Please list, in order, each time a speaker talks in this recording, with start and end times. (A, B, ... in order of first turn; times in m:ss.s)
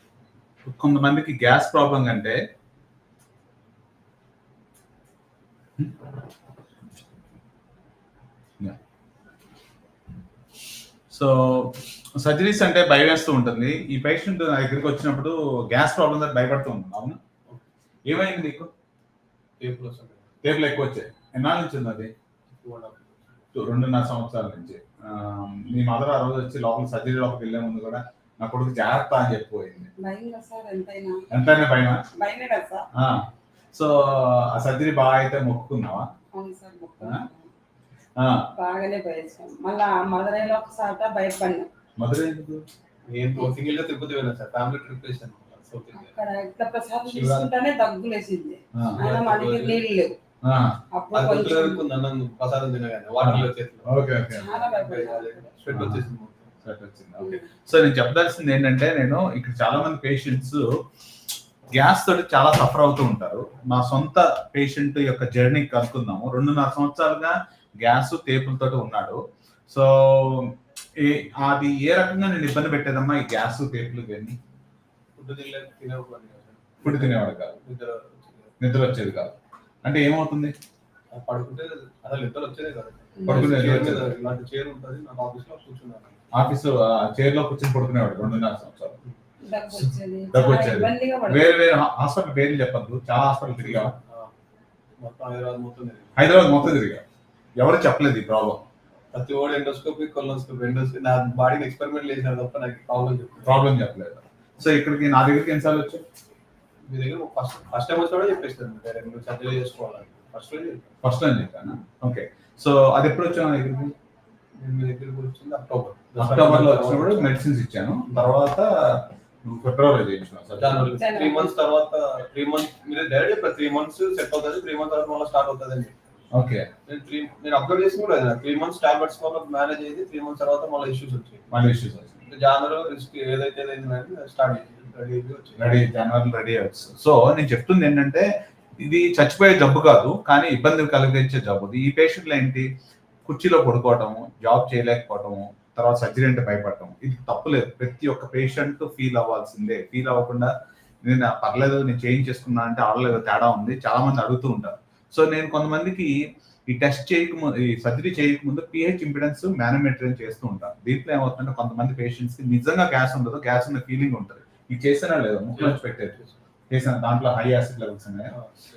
0:00.6-0:02.4 A
0:11.1-0:17.2 A
0:18.1-0:18.7 A
0:19.6-0:20.3 B
0:20.4-0:22.1 A
0:22.5-0:23.3 B
0:23.5-0:29.9 A
0:30.0-0:31.2 C
0:31.3-0:32.0 A
0:32.2-0:32.9 C
0:32.9-0:36.1 A
0:36.3-0:37.5 C
0:38.2-0:38.4 A
0:38.5-0:41.7 C
0:42.0-0:42.6 A
0:43.1-0:46.1 B
0:45.9-0:50.1 C
0:47.1-0:47.4 B
0:49.0-0:49.8 B
0:50.4-0:50.7 A
0:50.9-0:51.8 C
0:51.1-0:56.5 B
0:53.2-0:54.6 A
0:54.3-0:55.5 C
0:55.7-0:56.0 A
0:56.6-1:00.7 A
0:57.2-0:57.5 C
1:01.7-1:14.4 A
1:15.2-1:18.5 B
1:16.8-1:17.6 A
1:18.6-1:20.5 A
1:21.1-1:26.2 B
1:23.2-1:23.7 C
1:23.3-1:24.1 A
1:26.3-1:29.0 A
1:29.4-1:31.5 C
1:29.7-1:33.9 A
1:33.6-1:34.3 B
1:35.0-1:36.2 B
1:36.2-1:37.0 A
1:37.6-1:38.6 A
1:39.1-1:43.6 B
1:43.4-1:46.0 A
1:46.9-1:50.9 B
1:51.0-1:53.9 A
1:54.6-1:57.3 B
1:56.2-2:00.9 A
2:00.6-2:05.9 B
2:00.9-2:01.5 C
2:06.3-2:06.7 A
2:06.9-2:11.6 B
2:11.5-2:12.2 A
2:12.2-2:15.8 B
2:15.6-2:18.3 A
2:18.8-2:22.7 A
2:23.2-2:30.5 A
2:31.0-2:36.2 A
2:36.7-2:46.2 A
2:45.6-2:46.3 B
2:46.7-2:48.3 A